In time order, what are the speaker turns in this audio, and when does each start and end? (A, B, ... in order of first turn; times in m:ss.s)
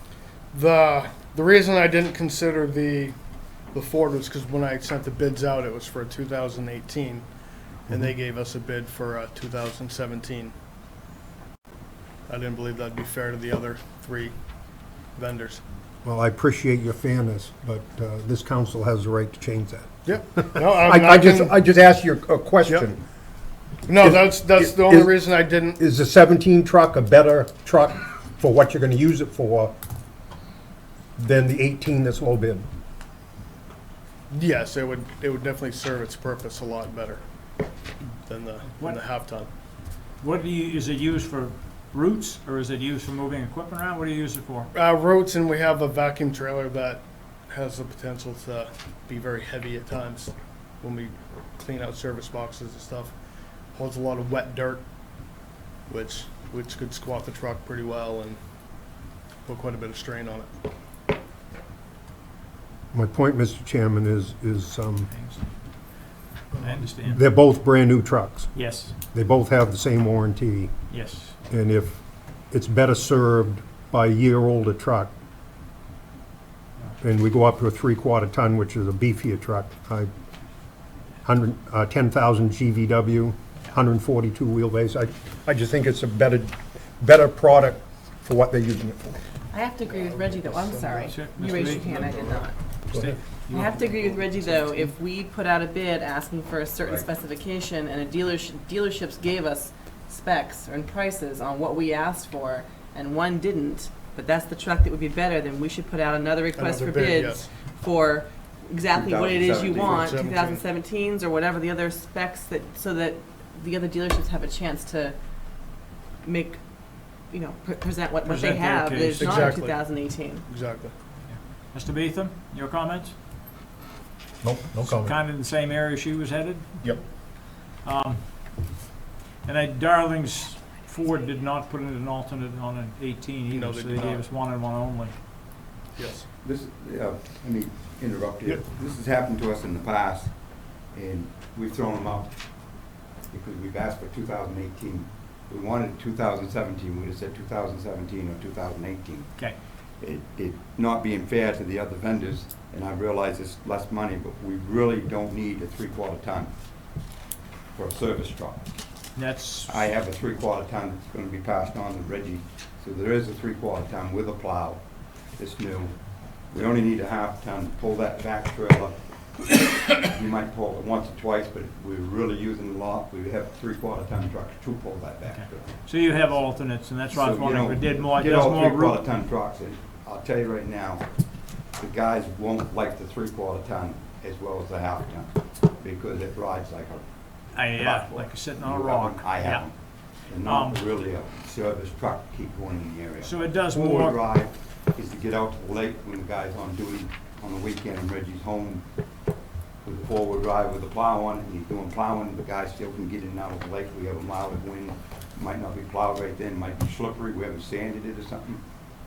0:00.5-0:03.1 A
0:03.7-0:07.3 A
0:07.9-0:10.5 A
0:12.3-0:14.3 A
0:15.1-0:15.6 A
0:16.0-0:23.0 B
0:20.0-0:21.6 A
0:23.9-0:25.8 A
0:24.0-0:25.1 B
0:25.8-0:29.8 B
0:31.2-0:32.7 B
0:34.3-0:37.2 A
0:38.2-0:39.5 A
0:40.2-0:44.7 C
0:44.7-0:53.1 A
0:53.7-0:54.8 A
0:55.9-0:58.4 A
0:59.4-1:00.5 A
1:02.9-1:05.1 B
1:05.1-1:05.4 C
1:06.6-1:07.2 C
1:07.0-1:08.6 B
1:08.5-1:08.9 C
1:09.1-1:10.7 B
1:10.9-1:11.4 C
1:11.5-1:15.1 B
1:17.0-1:20.1 B
1:21.2-1:29.2 B
1:29.5-1:32.6 D
1:29.8-1:32.5 A
1:31.1-1:32.1 C
1:32.9-1:34.9 C
1:33.4-1:55.2 D
1:36.8-1:37.1 E
1:46.5-1:47.6 A
1:48.9-1:50.2 E
1:49.6-1:50.6 A
1:56.2-1:56.6 D
1:57.3-2:00.4 D
1:58.2-1:59.6 C
1:59.0-2:00.9 A
2:01.2-2:03.1 C
2:04.4-2:05.2 B
2:04.8-2:07.1 C
2:07.8-2:08.3 C
2:09.4-2:15.1 C
2:13.5-2:14.2 A
2:15.9-2:16.3 A
2:16.4-2:29.4 E
2:30.0-2:36.5 E
2:37.7-2:38.7 E
2:39.1-2:39.9 C
2:39.7-2:44.8 E
2:45.3-2:55.8 E
2:55.3-2:59.0 C
2:57.1-3:01.1 E
3:01.8-3:18.8 E
3:07.5-3:09.7 C
3:10.4-3:10.8 C
3:13.2-3:14.2 C
3:19.8-3:28.6 E